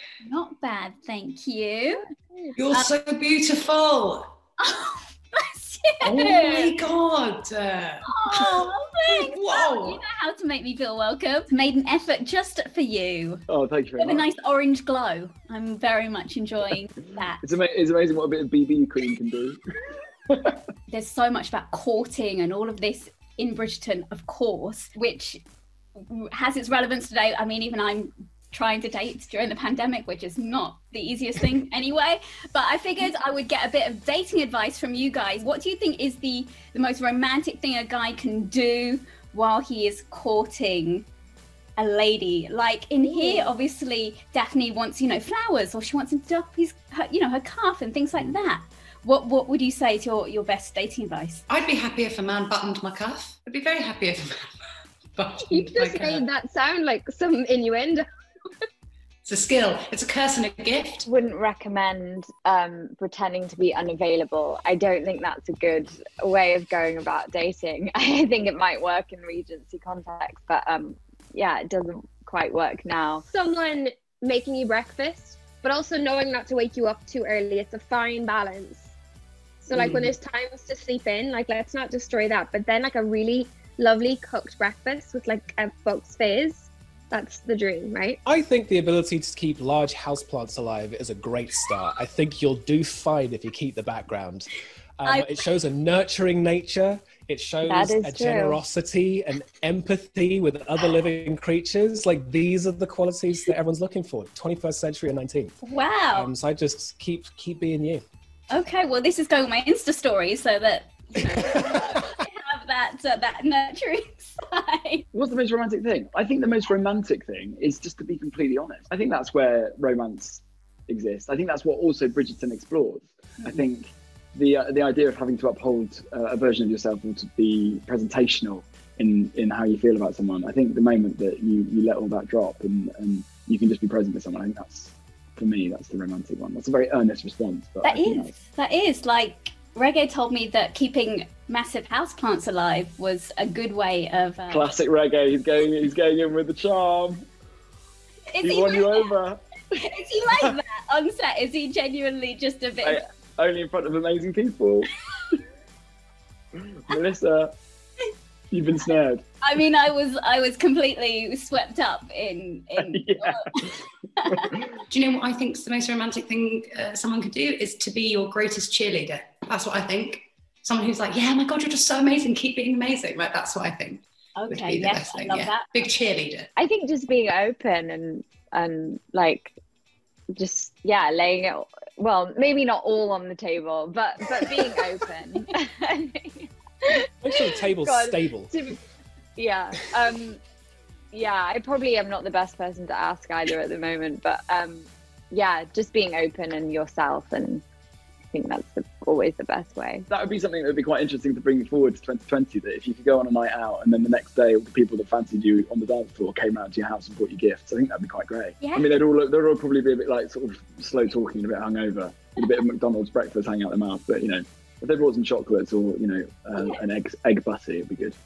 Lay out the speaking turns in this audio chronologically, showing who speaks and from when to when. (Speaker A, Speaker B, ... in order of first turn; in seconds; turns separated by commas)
Speaker A: 0.2-2.0, Speaker B: 2.6-4.3, Speaker A: 4.6-6.8, Speaker B: 6.0-10.0, Speaker A: 8.1-13.4, Speaker C: 13.5-14.3, Speaker A: 14.0-17.6, Speaker C: 17.4-19.6, Speaker A: 20.9-25.4, Speaker A: 26.0-41.1, Speaker A: 41.8-51.5, Speaker B: 51.5-54.5, Speaker B: 55.1-56.2, Speaker D: 55.5-56.2, Speaker E: 55.8-58.0, Speaker D: 56.8-58.0, Speaker B: 59.2-61.0, Speaker D: 61.1-78.9, Speaker E: 73.4-78.5, Speaker D: 79.6-88.0, Speaker C: 79.7-80.1, Speaker E: 80.0-86.6, Speaker E: 87.1-88.2, Speaker F: 88.2-94.5, Speaker F: 95.0-105.5, Speaker A: 95.0-95.4, Speaker D: 97.7-98.6, Speaker A: 105.6-106.3, Speaker F: 106.1-108.0, Speaker A: 108.5-115.0, Speaker F: 111.3-111.9, Speaker C: 115.1-138.3, Speaker A: 137.8-144.8, Speaker C: 144.5-147.3, Speaker A: 148.3-149.2, Speaker C: 148.4-149.6, Speaker A: 149.7-153.0, Speaker C: 152.8-154.9, Speaker C: 156.6-157.5, Speaker C: 158.5-159.2, Speaker A: 159.4-164.6, Speaker C: 162.8-163.4, Speaker B: 164.9-176.5, Speaker A: 174.4-175.7, Speaker D: 176.6-179.6, Speaker D: 180.3-186.5, Speaker F: 186.9-188.5, Speaker D: 187.8-188.8, Speaker D: 189.4-190.4, Speaker D: 191.1-197.6, Speaker D: 198.3-200.1, Speaker C: 200.1-218.2, Speaker A: 208.6-208.9, Speaker A: 216.6-216.8